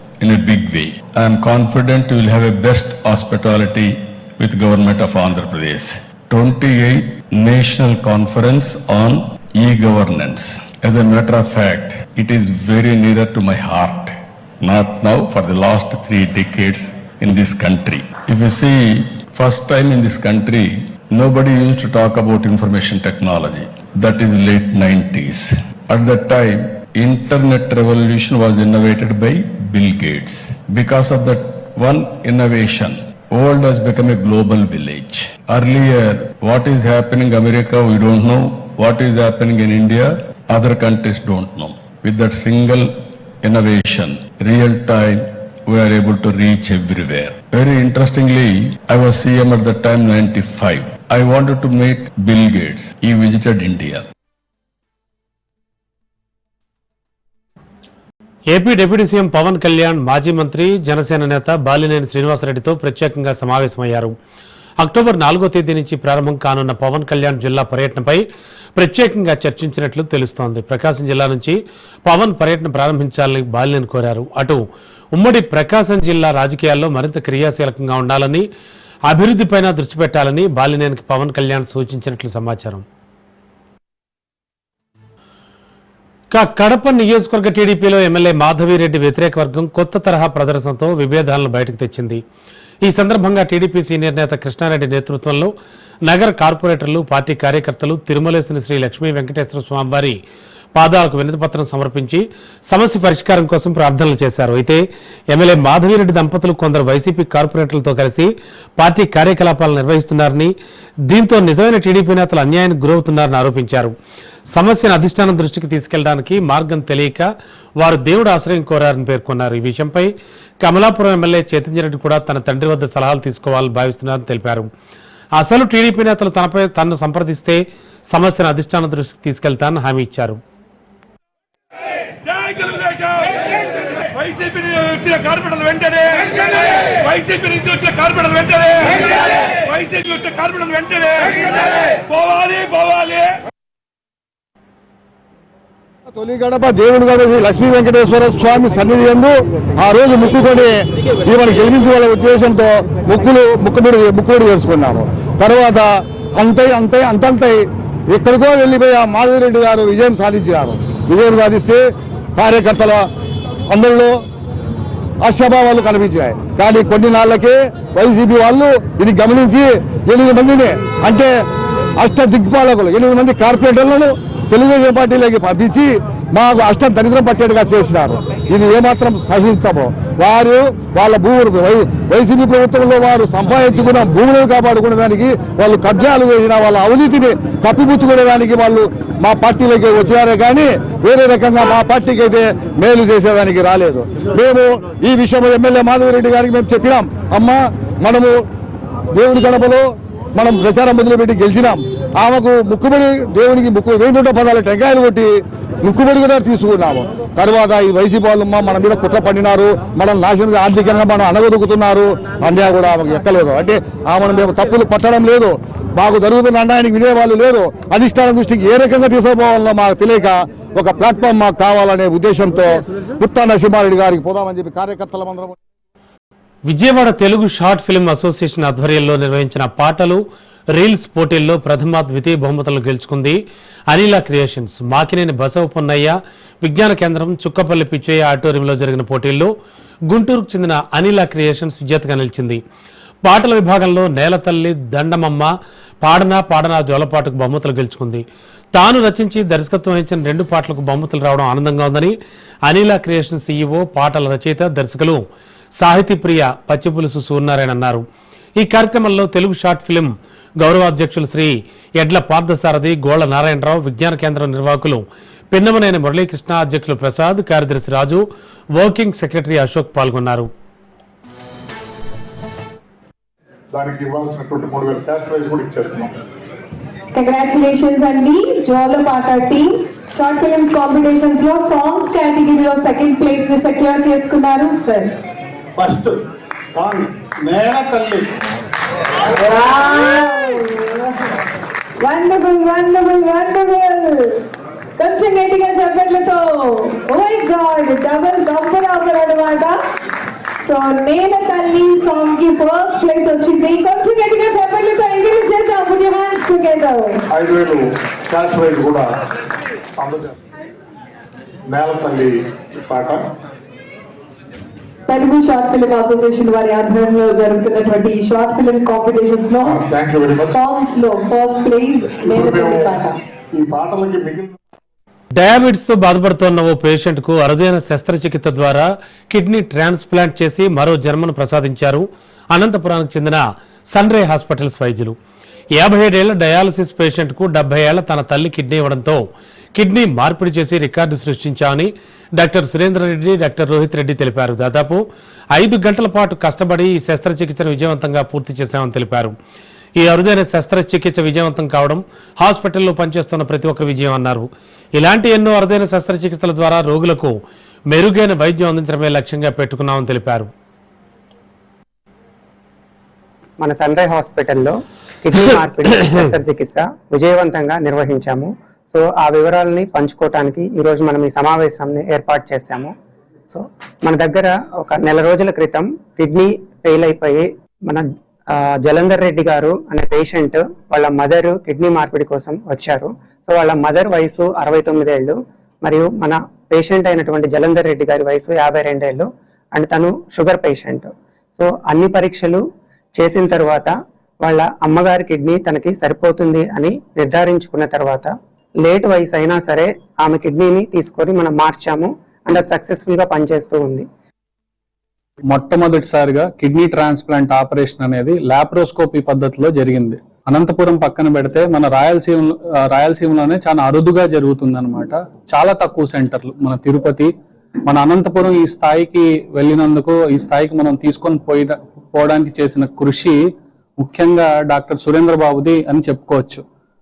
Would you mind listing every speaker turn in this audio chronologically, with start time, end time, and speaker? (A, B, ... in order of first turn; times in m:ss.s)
0:00.2-0:42.9 A
0:43.4-0:54.0 A
0:58.5-1:04.1 B
1:04.8-1:08.2 B
1:08.8-1:14.6 B
1:15.1-1:18.5 B
1:19.1-1:22.8 B
1:26.3-1:32.2 B
1:32.8-1:35.5 B
1:36.1-1:40.2 B
1:40.8-1:50.5 B
1:51.1-1:53.9 B
1:54.5-1:57.3 B
1:57.8-2:00.1 B
2:00.6-2:04.7 B
2:05.4-2:10.4 B
2:12.5-2:12.9 C
2:14.3-2:16.3 C
2:17.1-2:17.7 D
2:17.1-2:19.0 C
2:18.2-2:18.6 D
2:19.8-2:21.4 C
2:22.1-2:23.1 C
2:22.2-2:23.2 D
2:26.1-2:30.7 E
2:31.2-2:37.6 E
2:38.1-2:41.8 E
2:42.4-2:43.0 E
2:43.7-2:44.1 E
2:45.2-2:51.3 E
2:52.0-3:18.3 E
3:19.1-3:25.3 E
3:25.8-3:45.6 E
3:46.7-3:50.2 B
3:50.7-3:53.4 B
3:53.9-3:59.5 B
4:00.1-4:02.6 B
4:03.2-4:05.5 B
4:06.0-4:08.2 B
4:08.7-4:12.2 B
4:12.7-4:15.2 B
4:15.8-4:18.0 B
4:18.6-4:28.2 B
4:28.7-4:30.5 B
4:33.7-4:36.1 F
4:37.1-4:45.1 G
4:49.3-4:51.2 G
4:52.0-4:54.4 G
4:55.0-4:59.8 G
5:00.6-5:07.2 G
5:07.3-5:09.1 F
5:10.0-5:10.4 F
5:11.7-5:13.2 F
5:15.1-5:23.2 G
5:19.6-5:20.6 F
5:22.5-5:22.9 F
5:23.5-5:24.6 F
5:25.4-5:35.2 B
5:35.8-5:39.2 B
5:39.8-5:45.0 B
5:45.5-5:49.3 B
5:50.0-5:57.3 B
5:57.9-6:00.5 B
6:03.6-6:12.9 H
6:13.5-6:32.6 H
6:33.2-6:44.0 H
6:45.5-6:57.3 D
6:57.8-7:03.4 D
7:04.0-7:06.6 D